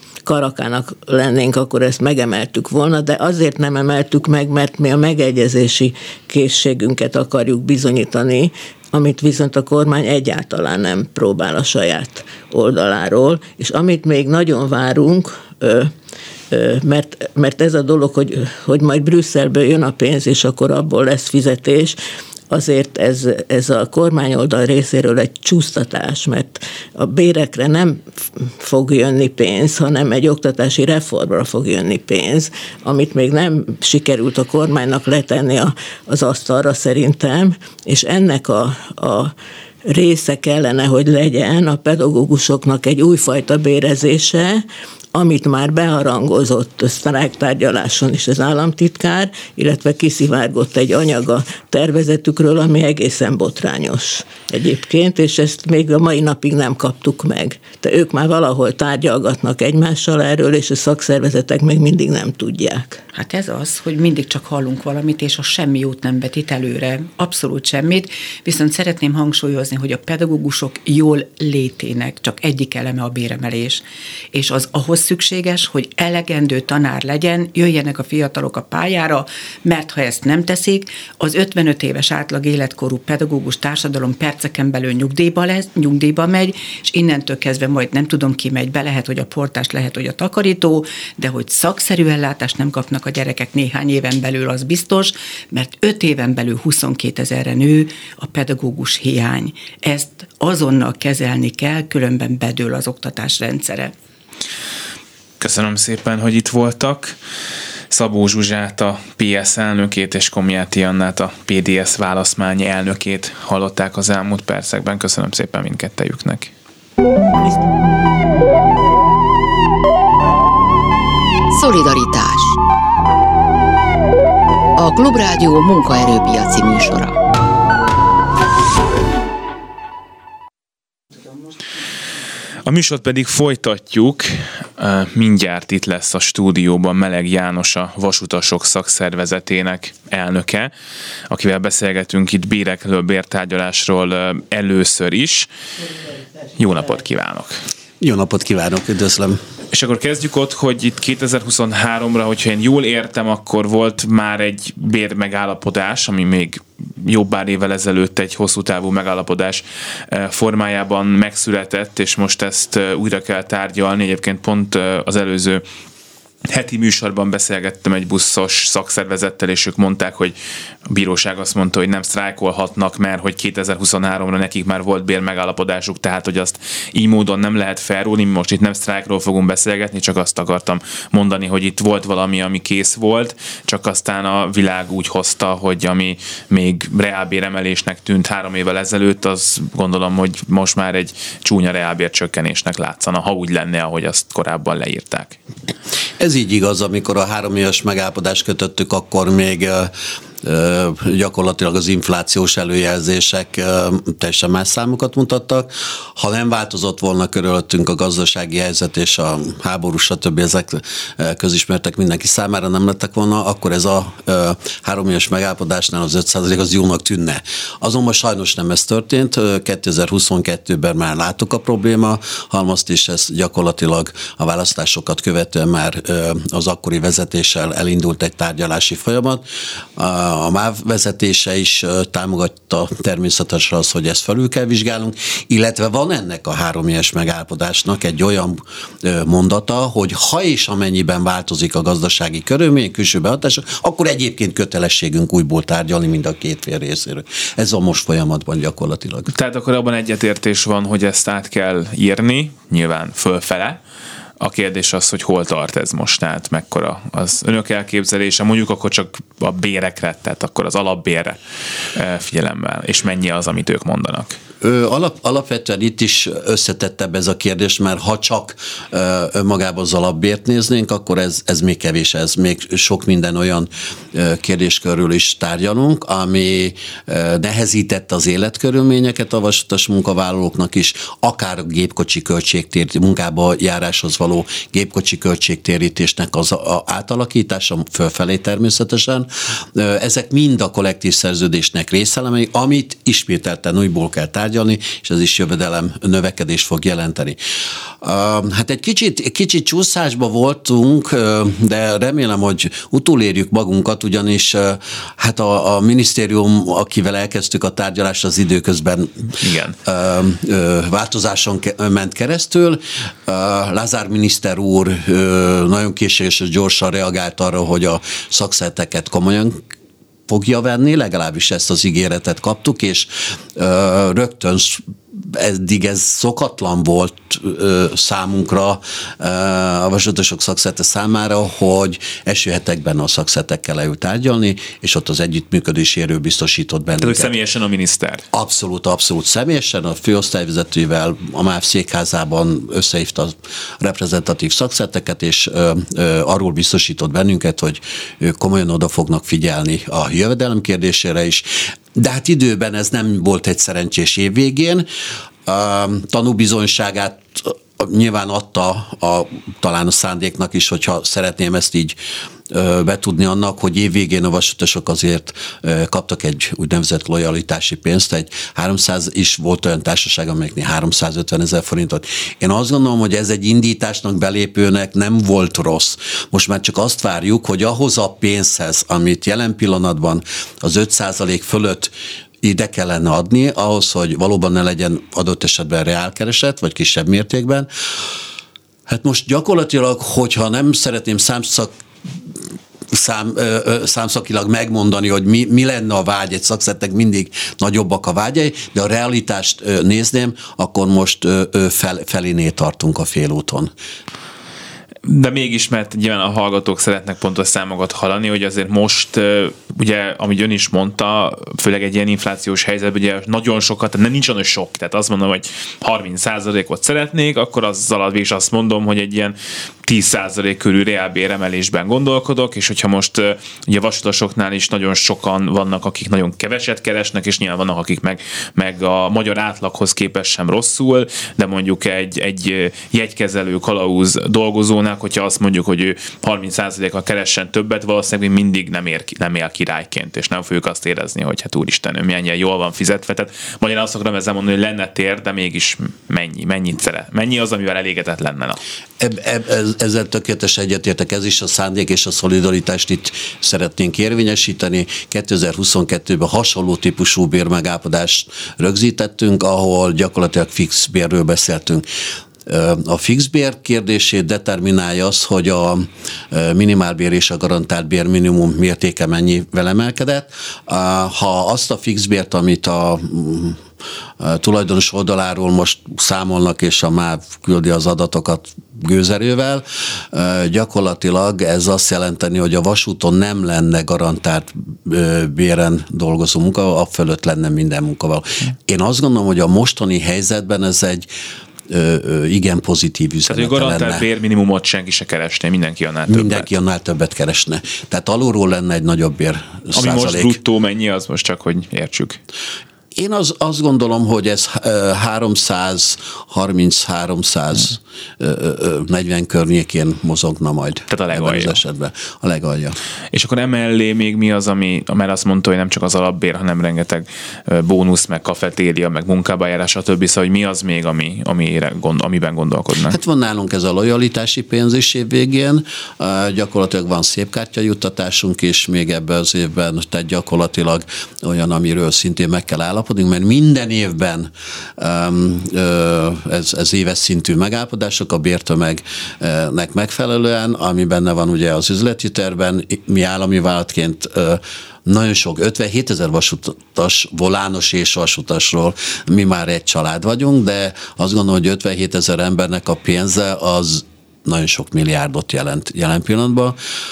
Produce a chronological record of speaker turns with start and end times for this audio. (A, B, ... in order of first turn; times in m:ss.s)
0:00.2-0:15.9 A
0:16.5-0:22.0 A
0:22.5-0:39.3 A
0:39.8-1:03.0 A
1:03.1-1:43.9 B
1:45.4-1:47.2 C
1:47.9-1:56.5 C
2:01.5-2:02.6 D
2:04.8-2:07.2 D
2:12.6-2:20.7 C
2:21.3-2:25.5 C
2:26.6-2:27.6 C
2:28.0-2:29.4 E
2:29.7-2:45.6 C
2:46.5-2:50.3 C
2:50.8-3:15.4 C
3:16.2-3:49.4 E
3:50.0-4:09.3 E
4:09.3-4:13.8 C
4:14.4-4:21.4 C
4:21.9-4:24.4 C
4:24.6-4:57.4 E
4:58.0-5:19.6 E
5:09.4-5:09.8 C
5:20.3-5:37.3 E
5:37.0-5:38.2 C
5:38.3-5:54.8 E
5:55.4-6:02.0 E
6:02.5-6:27.7 E
6:28.9-6:31.7 E
6:32.9-6:43.7 E
6:45.0-7:28.6 C
7:29.0-7:41.8 E
7:42.4-7:53.6 E
7:54.2-8:11.1 E
8:11.7-8:14.0 E
8:13.2-8:16.5 C
8:16.1-8:20.4 E
8:19.7-8:22.2 C
8:23.0-8:32.8 E
8:30.9-8:31.6 C
8:33.1-8:43.0 C
8:42.8-9:16.6 E